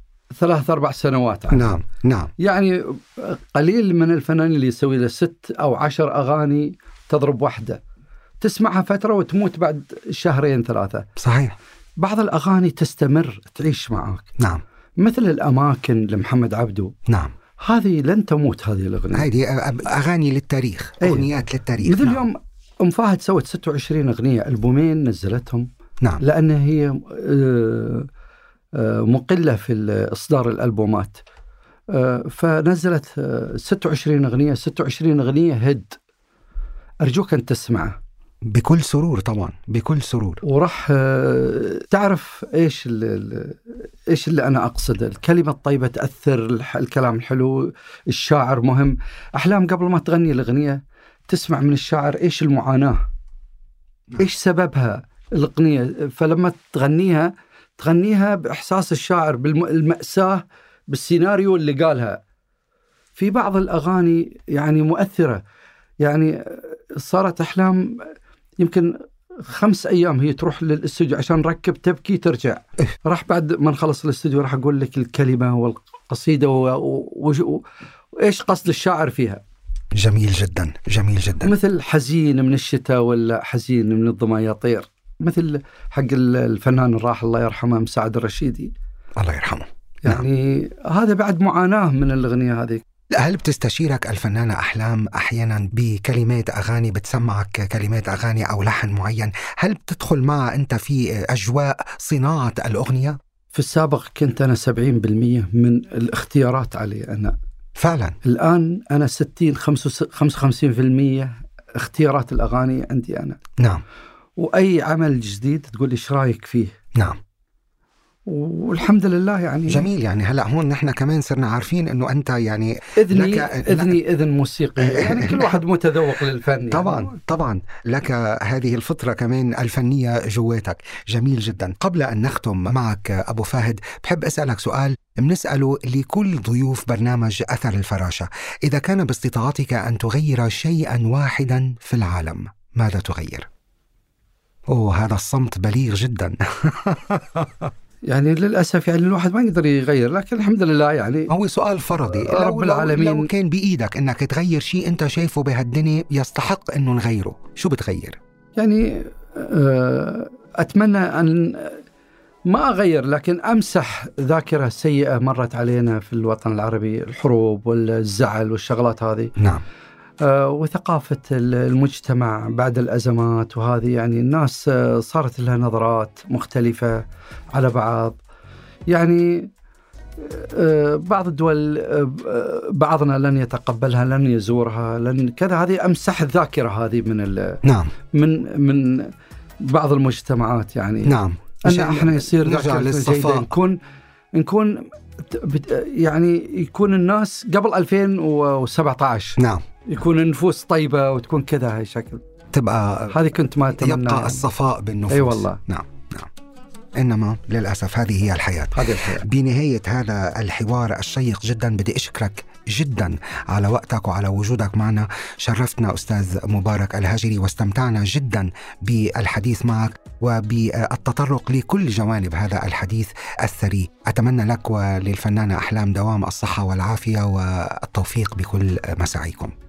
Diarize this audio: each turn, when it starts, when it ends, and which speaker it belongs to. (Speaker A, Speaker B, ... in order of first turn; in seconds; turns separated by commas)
Speaker A: 0.3-1.7, Speaker B: 1.5-2.3, Speaker A: 2.4-7.8, Speaker A: 8.4-11.1, Speaker B: 11.2-11.6, Speaker A: 12.0-14.3, Speaker A: 15.0-16.9, Speaker B: 17.1-17.3, Speaker A: 17.6-19.3, Speaker B: 19.1-22.2, Speaker A: 21.0-21.3, Speaker A: 21.8-28.1, Speaker A: 28.7-31.2, Speaker A: 31.9-36.0, Speaker A: 37.0-38.0, Speaker B: 38.5-40.4, Speaker A: 40.4-53.0, Speaker A: 54.2-62.2, Speaker A: 63.1-65.4, Speaker A: 66.0-77.6, Speaker A: 78.2-79.4, Speaker B: 79.9-81.5, Speaker A: 81.4-88.7, Speaker B: 89.2-90.2, Speaker A: 90.0-92.8, Speaker B: 93.1-103.2, Speaker A: 103.5-107.3, Speaker B: 107.8-108.2, Speaker A: 108.2-113.4, Speaker B: 113.6-113.8, Speaker A: 114.4-116.7, Speaker A: 118.2-119.8, Speaker B: 119.7-124.0, Speaker A: 123.0-127.1, Speaker B: 124.8-125.6, Speaker B: 126.7-143.5, Speaker B: 144.7-147.7, Speaker A: 148.1-151.3, Speaker B: 151.3-158.2, Speaker A: 152.0-153.3, Speaker A: 158.6-161.8, Speaker A: 162.5-169.3, Speaker B: 169.4-169.6, Speaker A: 170.2-178.2, Speaker A: 178.9-179.5, Speaker A: 180.2-187.6, Speaker B: 187.6-187.9, Speaker A: 188.1-193.8, Speaker B: 191.0-193.5, Speaker A: 194.3-202.2, Speaker B: 199.4-199.6, Speaker B: 202.5-206.3, Speaker A: 203.1-204.4, Speaker A: 205.1-205.6, Speaker B: 206.9-229.5, Speaker A: 208.7-209.3